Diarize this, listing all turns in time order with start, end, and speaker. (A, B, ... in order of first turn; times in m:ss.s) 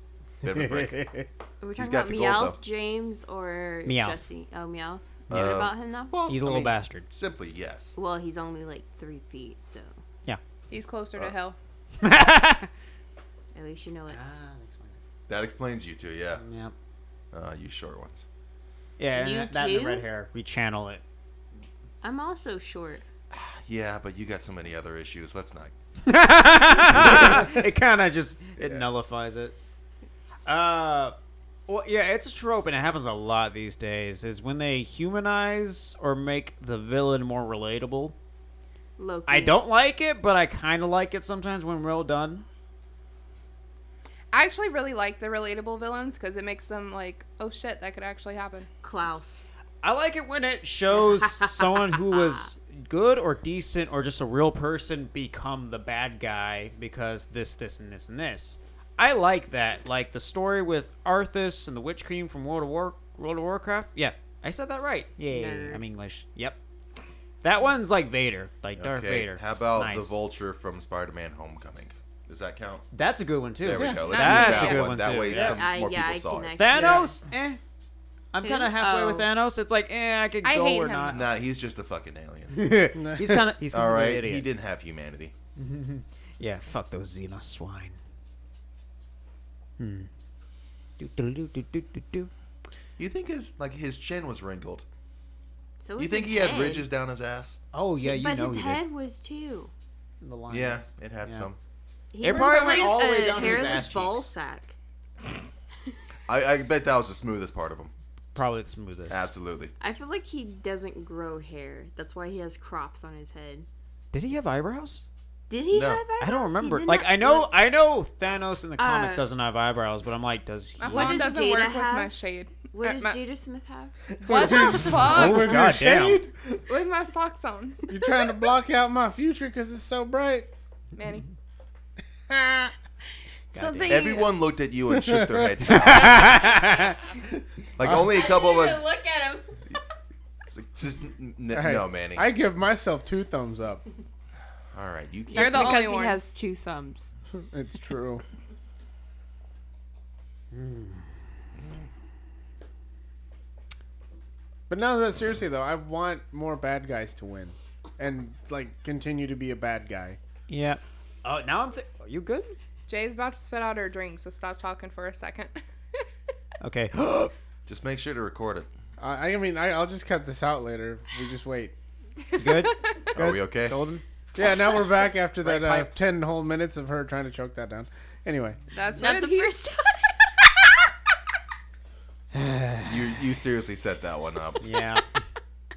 0:00.4-0:01.0 A
0:00.4-0:01.2 B
0:01.6-0:06.1 C
0:01.8-0:02.6 A
0:03.8-0:04.2 D
0:05.3-0:08.0 A
0:06.2-0:07.1 D
0:07.9-0:09.9 C
0:10.7-0:11.6 E
0:12.0-0:12.7 D
0:13.5-0:14.2 C
0:14.1-0:15.0 D
0:15.3-0:16.4 A
0:16.4-0:16.7 D
0:17.3-0:18.2 A
0:19.0-0:21.0 D
0:19.1-0:20.0 C
0:22.0-0:23.0 C
0:23.3-0:25.7 A
0:26.0-0:29.6 D
0:26.9-0:27.5 A
0:28.6-0:28.9 A
0:30.4-0:31.2 D
0:31.7-0:38.1 D
0:39.0-0:39.6 C
0:39.3-0:42.4 D
0:44.3-0:48.7 E
0:48.8-0:49.4 C
0:49.8-1:06.6 D
0:51.1-0:52.4 C
1:05.2-1:05.8 C
1:07.4-1:10.2 D
1:08.8-1:12.8 A
1:12.9-1:15.6 D
1:13.6-1:16.6 A
1:13.8-1:14.0 B
1:14.2-1:14.8 E
1:15.2-1:17.1 C
1:16.6-1:17.6 D
1:16.8-1:17.1 B
1:18.3-1:21.2 D
1:18.4-1:19.3 C
1:20.4-1:21.2 E
1:21.1-1:22.7 A
1:22.5-1:24.5 D
1:22.9-1:23.6 B
1:23.7-1:25.3 A
1:25.6-1:28.0 D
1:29.8-1:30.1 D
1:31.0-1:32.3 D
1:33.0-1:34.8 A
1:35.8-1:36.8 C
1:36.0-1:37.6 A
1:37.7-1:38.8 D
1:38.0-1:39.7 C
1:40.2-1:41.5 D
1:40.5-1:41.6 A
1:42.1-1:44.7 C
1:42.2-1:44.3 D
1:46.3-1:47.9 A
1:48.3-1:49.3 D
1:49.1-1:49.7 A
1:49.8-1:53.7 C
1:54.1-1:55.0 D
1:55.5-1:57.5 C
1:55.7-1:56.0 A
1:56.2-2:01.3 D
1:58.8-1:59.2 C
2:00.8-2:03.2 E
2:00.8-2:02.2 C
2:02.7-2:03.9 C
2:04.1-2:06.6 B
2:04.2-2:05.5 E
2:04.6-2:06.2 D
2:06.7-2:07.9 E
2:07.9-2:10.5 B
2:10.9-2:11.3 E
2:12.3-2:12.7 B
2:13.5-2:14.4 C
2:13.5-2:14.1 D
2:13.9-2:16.4 A
2:14.9-2:15.8 B
2:15.7-2:17.0 D
2:17.8-2:18.9 A
2:17.8-2:18.1 B
2:18.1-2:19.6 C
2:20.5-2:22.3 A
2:21.5-2:23.8 B
2:24.7-2:25.9 A
2:25.3-2:27.1 C
2:25.3-2:26.2 E
2:27.5-2:28.2 B
2:30.5-2:31.0 D
2:34.7-2:40.2 B
2:40.5-2:42.5 D
2:42.9-2:45.6 E
2:46.6-2:47.3 D
2:47.6-2:48.7 A
2:49.0-2:51.7 B
2:52.3-2:54.0 D
2:53.1-2:53.8 A
2:54.3-2:58.6 B
2:55.4-2:55.9 D
2:58.7-2:59.5 E
2:58.9-3:00.2 C
3:02.3-3:03.0 D
3:02.8-3:04.6 A
3:04.6-3:05.0 D